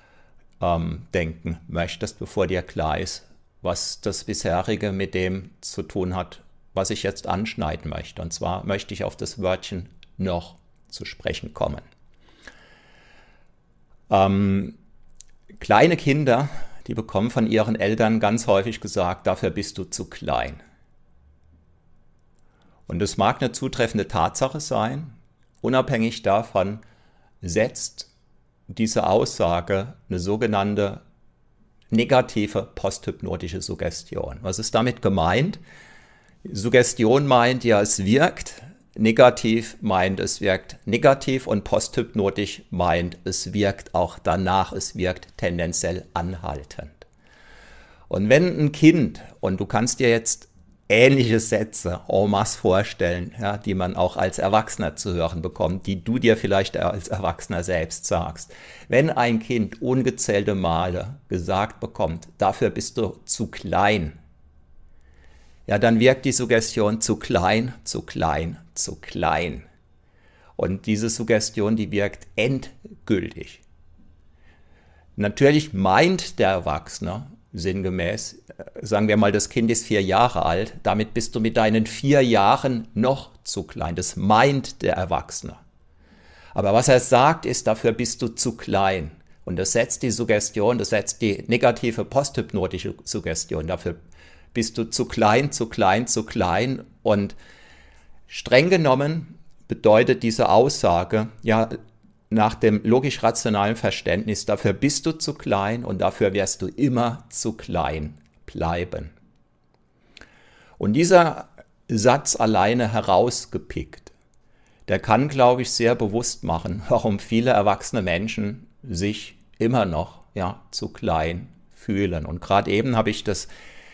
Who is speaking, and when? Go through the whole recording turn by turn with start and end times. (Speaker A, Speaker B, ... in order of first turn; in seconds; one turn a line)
Speaker A: 0.6-11.8
Speaker A: 14.1-14.8
Speaker A: 15.6-20.6
Speaker A: 22.9-26.8
Speaker A: 27.4-28.1
Speaker A: 28.7-31.0
Speaker A: 31.9-35.6
Speaker A: 36.5-47.0
Speaker A: 48.1-64.2
Speaker A: 65.7-69.7
Speaker A: 70.6-73.6
Speaker A: 75.2-85.6
Speaker A: 86.5-94.0
Speaker A: 94.5-97.4
Speaker A: 98.3-101.8
Speaker A: 102.3-109.1
Speaker A: 110.8-114.1
Speaker A: 114.9-123.5